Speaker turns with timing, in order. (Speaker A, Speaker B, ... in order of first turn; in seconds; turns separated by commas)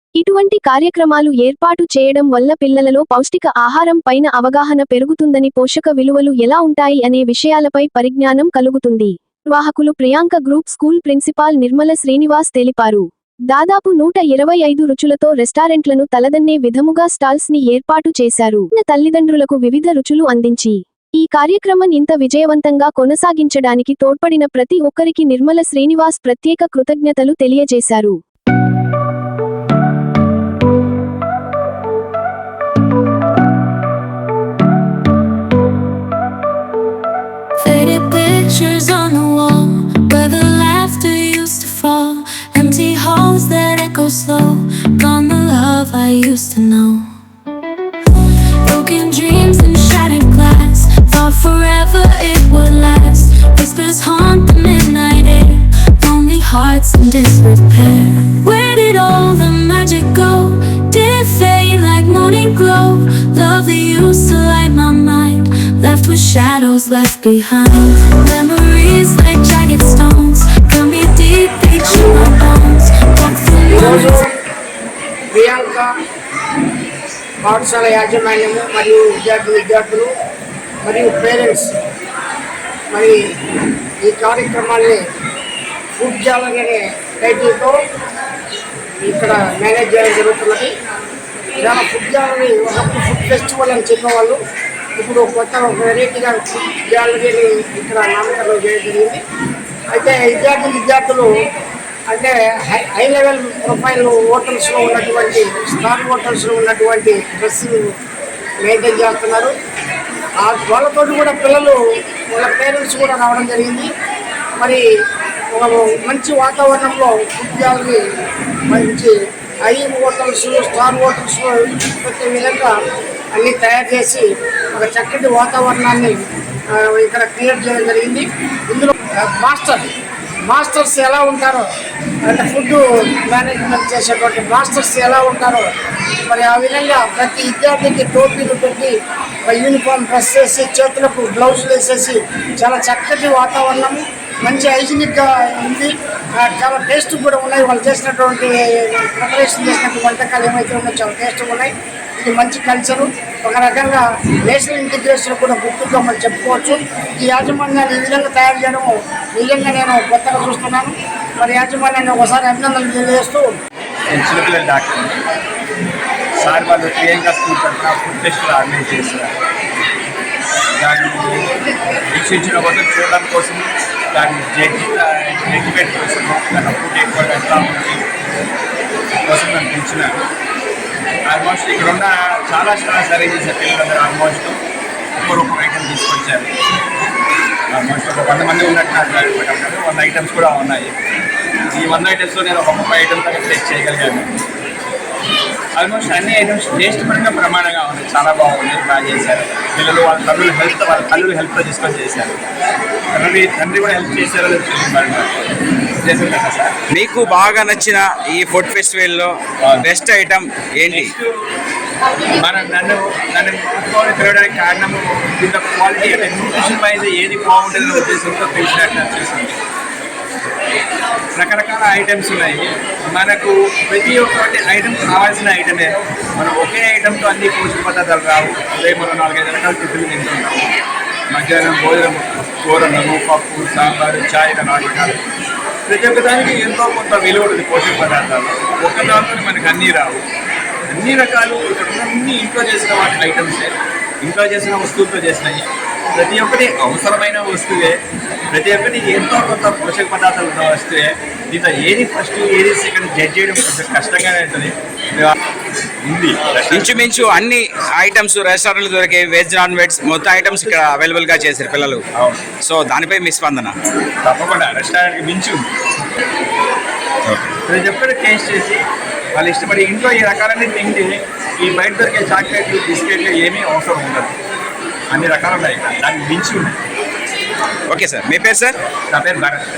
Speaker A: 0.2-28.2, Speaker B: 37.6-47.1, Speaker B: 48.1-74.2, Speaker C: 73.7-74.3, Speaker C: 75.3-75.9, Speaker C: 77.4-80.1, Speaker C: 80.8-81.7, Speaker C: 84.0-85.0, Speaker C: 86.0-87.7, Speaker C: 89.0-90.7, Speaker C: 91.6-94.4, Speaker C: 95.0-99.2, Speaker C: 99.9-101.3, Speaker C: 102.1-108.0, Speaker C: 108.6-109.5, Speaker C: 110.4-111.8, Speaker C: 112.3-113.9, Speaker C: 115.5-118.0, Speaker C: 118.7-119.1, Speaker C: 119.7-122.8, Speaker C: 123.4-126.2, Speaker C: 126.7-129.9, Speaker C: 130.5-131.7, Speaker C: 132.3-135.7, Speaker C: 136.3-138.9, Speaker C: 139.5-163.5, Speaker D: 164.1-165.2, Speaker D: 166.4-169.3, Speaker D: 170.8-171.5, Speaker D: 172.1-178.1, Speaker D: 179.2-180.2, Speaker D: 181.3-184.6, Speaker D: 185.2-186.5, Speaker D: 187.7-190.9, Speaker D: 191.7-194.3, Speaker D: 195.8-202.3, Speaker D: 203.1-205.3, Speaker D: 206.0-206.8, Speaker E: 206.9-211.1, Speaker D: 210.9-211.2, Speaker D: 212.4-219.6, Speaker D: 221.3-230.7, Speaker D: 231.3-235.2, Speaker D: 235.9-240.2, Speaker D: 240.9-248.0, Speaker D: 248.5-255.3, Speaker D: 256.1-257.3, Speaker E: 256.7-263.8, Speaker D: 264.2-265.7, Speaker E: 267.3-267.6, Speaker D: 267.7-268.8, Speaker D: 269.3-274.4, Speaker D: 275.1-276.7, Speaker E: 277.9-278.8, Speaker D: 279.1-279.6